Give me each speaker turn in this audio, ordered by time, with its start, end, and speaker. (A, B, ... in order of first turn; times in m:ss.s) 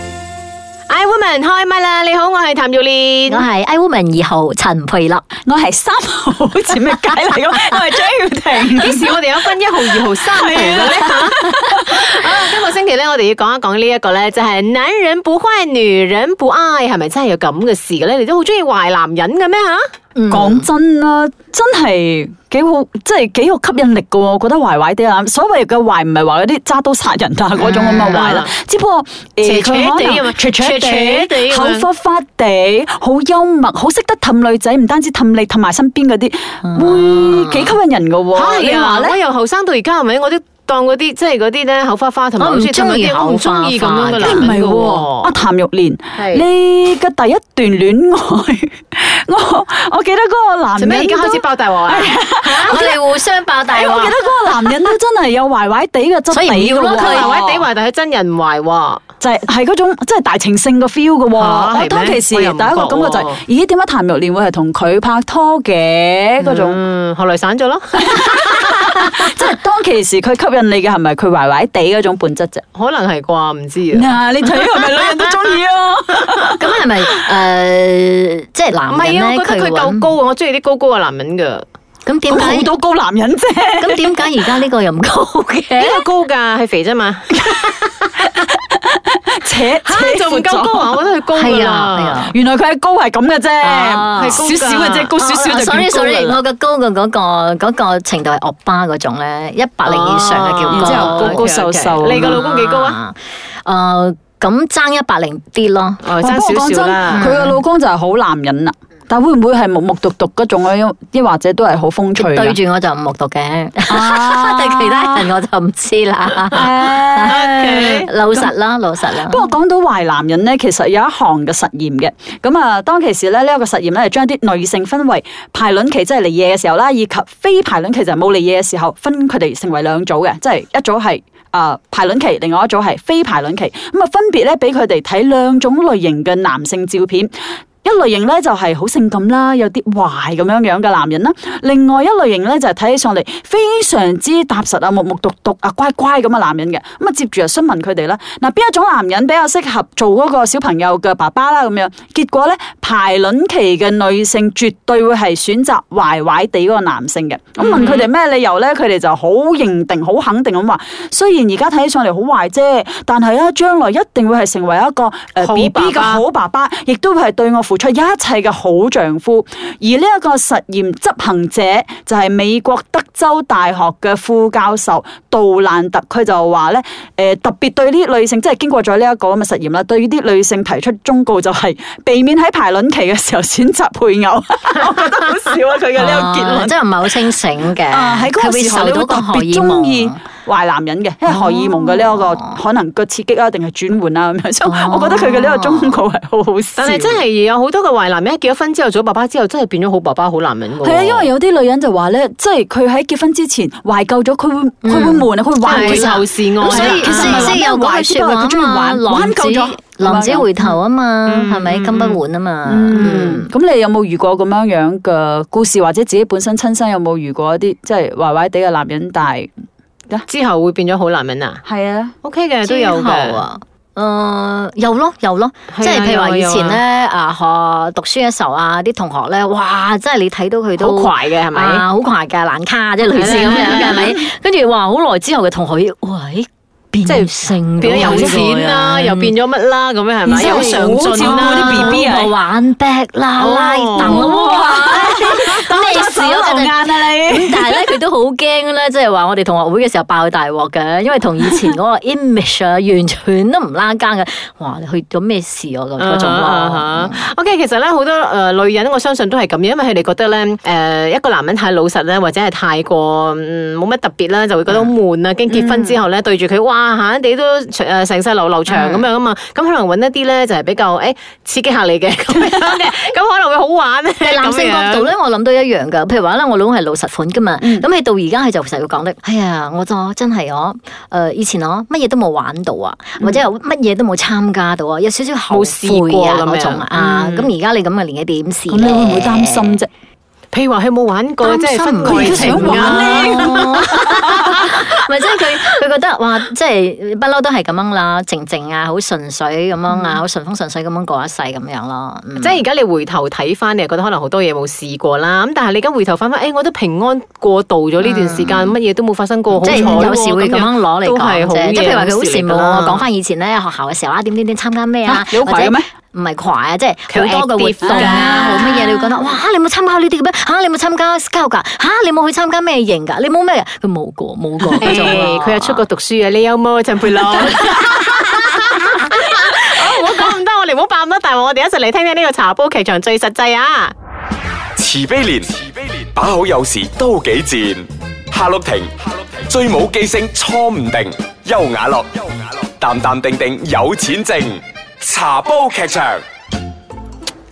0:00.9-0:03.4 A
0:03.3-0:05.3 B
0:05.4-0:12.0 C
0:08.8-0:19.9 A
0:20.2-0:20.7 B
0:20.3-0:39.2 C
0:27.6-0:28.5 A
0:29.4-0:31.9 A
0:36.6-0:37.8 B
0:38.3-0:45.3 A
0:42.4-0:44.5 B
0:44.2-0:53.0 C
0:46.2-0:46.5 A
0:50.8-0:52.8 A
0:52.6-0:54.9 B
0:53.7-0:57.6 C
0:56.3-0:57.4 B
0:56.8-0:59.0 A
0:59.2-1:06.8 C
1:01.3-1:03.4 A
1:06.4-1:09.1 A
1:08.0-1:12.6 C
1:12.7-1:15.0 A
1:13.9-1:16.7 C
1:16.6-1:20.1 B
1:18.9-1:21.6 A
1:22.0-1:22.7 B
1:22.3-1:24.3 C
1:23.8-1:26.0 B
1:25.8-1:28.1 A
1:28.2-1:30.9 C
1:29.8-1:32.2 A
1:31.3-1:32.3 B
1:32.2-1:36.4 C
1:33.6-1:34.4 B
1:34.1-1:35.1 A
1:35.2-1:41.5 B
1:39.8-1:43.0 A
1:40.7-1:42.4 C
1:42.0-1:46.1 B
1:46.0-1:47.3 A
1:46.2-1:52.6 C
1:47.1-1:47.6 B
1:52.1-1:59.5 B
1:53.9-1:55.3 C
1:56.5-1:58.5 C
1:57.2-1:58.1 A
1:59.1-2:17.3 C
2:17.8-3:06.8 C
2:37.6-2:38.1 A
2:45.4-2:46.2 A
3:05.9-3:10.2 B
3:07.9-3:17.2 C
3:11.3-3:12.6 B
3:14.6-3:16.0 B
3:16.8-3:21.3 A
3:20.8-3:30.7 C
3:24.8-3:33.5 B
3:25.6-3:27.6 A
3:31.3-3:32.2 A
3:32.6-3:39.5 C
3:32.9-3:33.2 A
3:40.3-3:41.6 A
3:41.6-3:42.1 C
3:42.2-3:43.4 A
3:42.6-3:59.4 B
3:45.7-3:46.8 A
3:50.8-3:51.8 A
3:53.1-3:54.1 A
3:53.2-3:54.1 C
3:57.0-4:02.0 A
3:57.8-3:58.4 C
4:00.2-4:02.3 C
4:00.4-4:17.2 B
4:03.4-4:04.9 A
4:04.0-4:08.0 C
4:16.0-4:35.1 A
4:25.5-4:26.0 C
4:28.7-4:29.0 B
4:34.2-4:49.8 B
4:37.6-4:37.9 C
4:45.5-4:47.4 A
4:48.7-4:49.9 C
4:50.5-4:54.7 A
4:51.4-5:02.6 B
4:52.0-4:54.3 C
4:59.9-5:00.2 A
5:02.4-5:13.0 A
5:08.0-5:08.7 B
5:09.5-5:10.1 C
5:09.6-5:25.8 B
5:15.0-5:15.8 C
5:17.1-5:18.8 A
5:17.9-5:19.2 C
5:24.6-5:25.0 C
5:24.8-5:33.9 A
5:34.8-5:46.2 D